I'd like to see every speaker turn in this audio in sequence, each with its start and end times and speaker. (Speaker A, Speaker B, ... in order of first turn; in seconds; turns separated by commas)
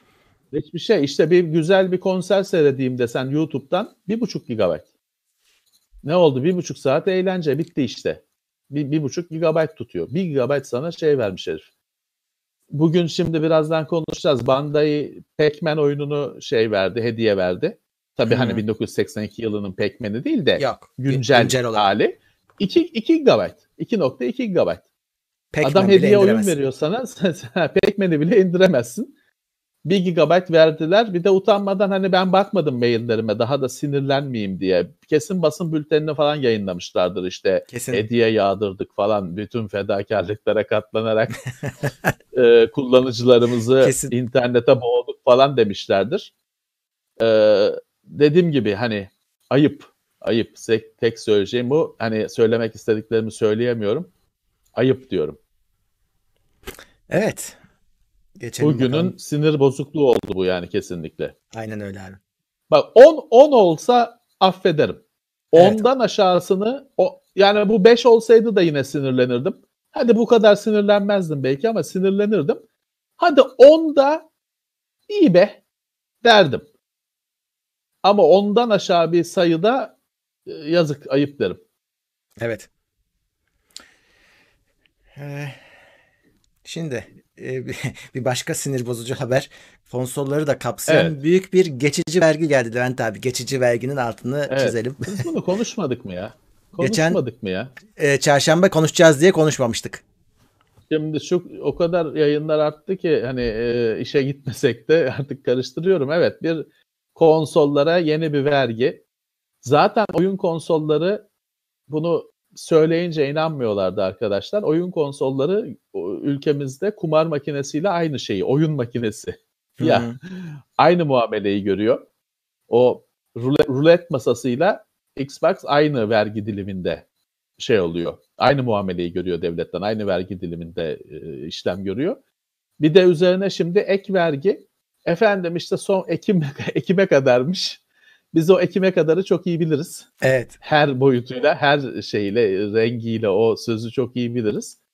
Speaker A: 0.5-4.8, Speaker A: 6.0-11.7, Speaker A: 12.7-24.8, Speaker B: 18.3-18.6, Speaker B: 20.6-21.9, Speaker B: 25.5-26.5, Speaker A: 25.6-29.1, Speaker A: 29.8-41.4, Speaker B: 37.7-38.0, Speaker A: 42.3-46.3, Speaker B: 43.8-44.1, Speaker A: 47.2-54.1, Speaker A: 54.8-55.4, Speaker B: 57.1-57.6, Speaker B: 58.4-59.1, Speaker A: 58.6-61.3, Speaker B: 61.5-62.2, Speaker A: 62.7-65.0, Speaker A: 65.5-72.6, Speaker B: 65.5-65.8, Speaker A: 73.2-74.2, Speaker A: 75.1-75.6, Speaker A: 76.2-76.6, Speaker A: 78.0-79.9, Speaker A: 80.5-81.6, Speaker B: 82.4-82.7, Speaker B: 85.1-85.6, Speaker B: 86.6-95.2, Speaker A: 90.9-91.1, Speaker A: 94.5-97.7, Speaker B: 96.8-97.2, Speaker B: 98.0-100.0, Speaker A: 100.9-109.0, Speaker A: 109.6-111.2, Speaker A: 111.9-122.0, Speaker B: 119.8-120.2, Speaker A: 122.7-127.0, Speaker A: 127.6-132.2, Speaker A: 132.8-137.8, Speaker A: 138.3-140.1, Speaker B: 140.2-140.5, Speaker A: 140.6-144.8